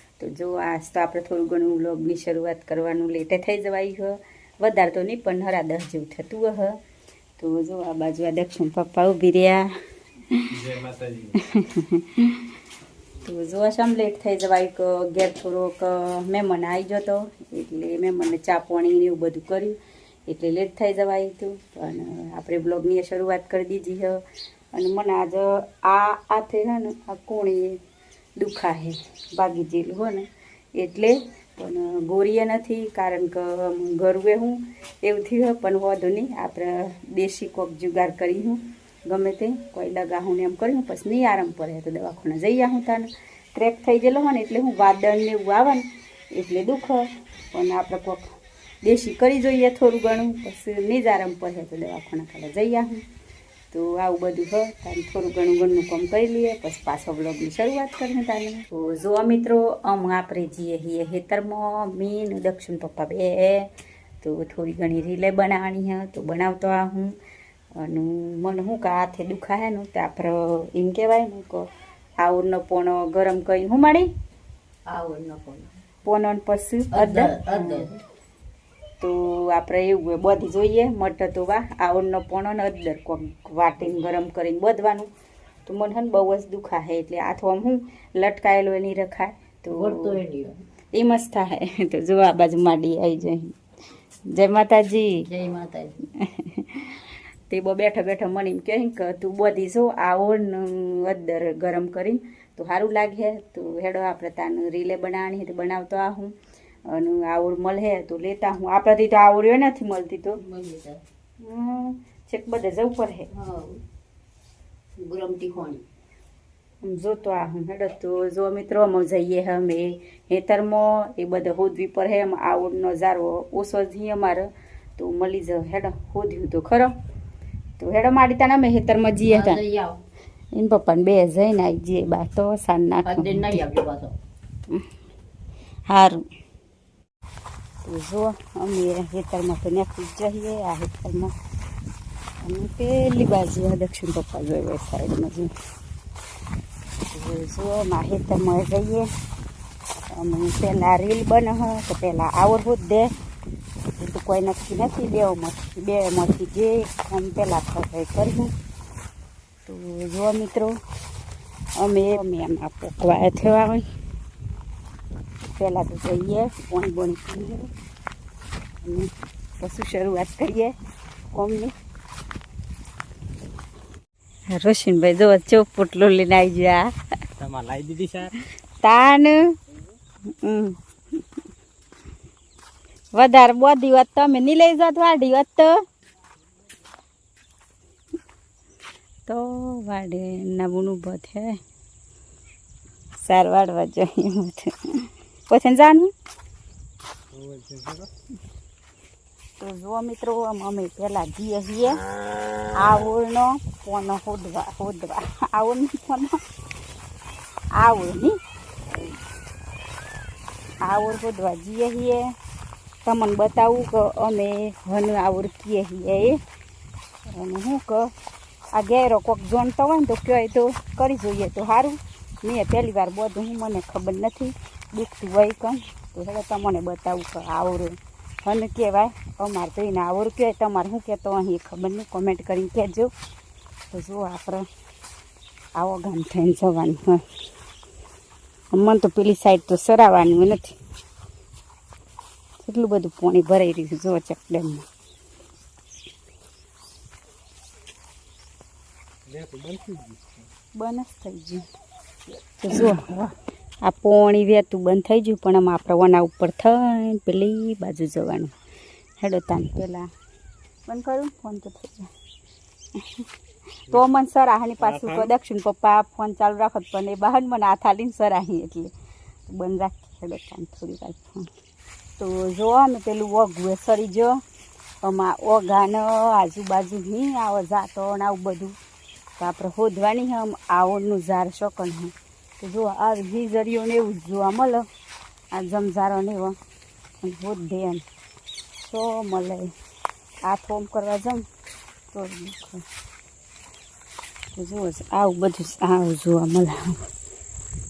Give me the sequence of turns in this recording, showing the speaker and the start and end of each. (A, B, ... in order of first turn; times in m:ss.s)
0:00.2-0:06.8 A
0:07.4-0:09.7 A
0:10.5-0:11.4 B
0:11.4-0:12.5 A
0:13.2-0:24.2 A
0:24.7-0:27.8 A
0:28.4-0:53.0 A
0:53.7-1:03.7 A
1:04.2-1:07.2 A
1:07.8-1:11.7 A
1:12.2-1:14.1 A
1:14.9-1:15.8 C
1:16.0-1:17.9 A
1:16.9-1:18.0 C
1:19.0-1:25.1 A
1:25.7-1:30.2 A
1:29.7-1:30.6 C
1:30.9-1:33.6 A
1:34.3-1:35.2 A
1:35.3-1:36.0 C
1:36.2-1:46.4 A
1:46.9-1:50.4 A
1:50.4-1:51.0 C
1:51.4-1:53.3 A
1:53.3-1:53.8 C
1:55.0-1:55.8 C
1:56.8-2:06.9 A
2:07.8-2:09.6 A
2:09.3-2:10.0 C
2:10.5-2:13.6 A
2:13.0-2:14.2 C
2:15.9-2:16.2 A
2:17.8-2:21.3 A
2:22.4-2:25.5 A
2:27.1-2:29.1 A
2:30.1-2:33.1 A
2:34.0-2:38.5 A
2:39.7-2:40.8 A
2:41.8-2:43.8 A
2:45.6-2:47.7 A
2:48.8-2:50.8 A
2:51.3-2:51.7 A
2:54.6-2:56.9 A
2:57.4-2:58.3 B
2:58.8-2:59.5 A
3:00.3-3:00.8 A
3:03.1-3:05.8 A
3:09.3-3:11.6 A
3:13.2-3:16.1 A
3:17.3-3:18.1 B
3:19.6-3:22.0 A
3:22.8-3:26.4 A
3:27.8-3:28.4 A
3:30.8-3:32.3 A
3:33.0-3:36.4 A
3:37.3-3:38.1 A
3:38.7-3:53.1 A
3:53.9-3:54.7 A
3:55.8-3:57.2 A
3:58.7-4:00.8 A
4:02.6-4:04.9 A
4:09.3-4:10.5 B
4:10.8-4:11.7 A
4:12.6-4:13.1 A
4:12.8-4:13.3 B
4:13.8-4:18.6 A
4:19.2-4:20.1 A
4:20.9-4:22.1 A
4:23.0-4:23.3 A
4:23.9-4:28.9 A
4:24.8-4:25.3 B
4:29.5-4:31.5 A
4:32.2-4:34.4 A
4:35.0-4:38.8 A
4:39.4-4:44.9 A
4:45.5-4:46.6 A
4:47.2-4:48.0 A
4:48.8-4:49.7 A
4:50.4-4:51.4 A
4:52.1-4:52.8 A
4:54.6-4:57.0 A